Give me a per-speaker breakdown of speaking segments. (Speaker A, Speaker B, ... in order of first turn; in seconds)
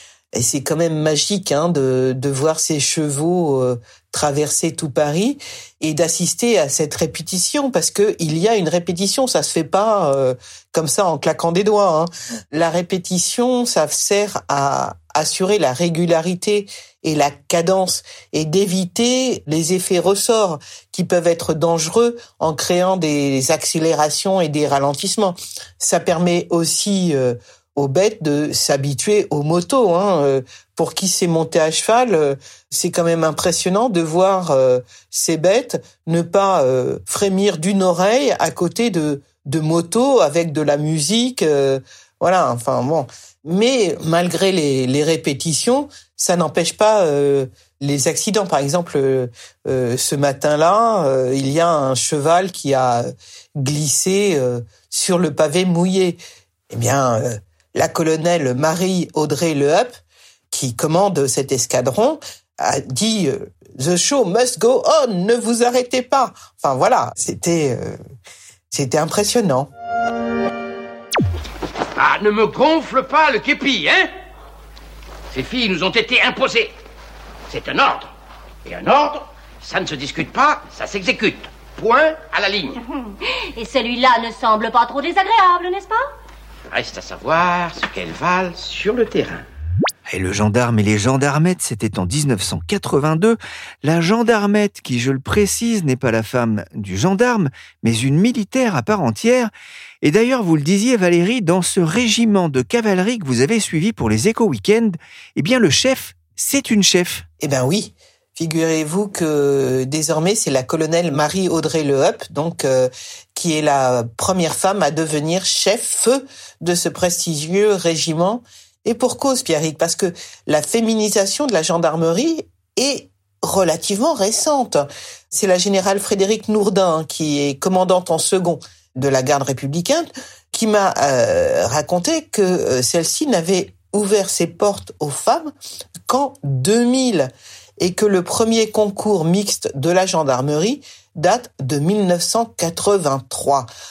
Speaker A: 0.3-53.1, 53.6-56.2, 56.7-59.9, 60.5-68.0, 68.7-69.7, 107.4-135.5, 136.1-143.7
Speaker B: 72.0-74.1, 75.3-76.7, 77.5-78.1, 78.6-82.8, 86.7-89.4
Speaker C: 83.1-86.0
Speaker D: 90.1-99.5, 100.0-107.2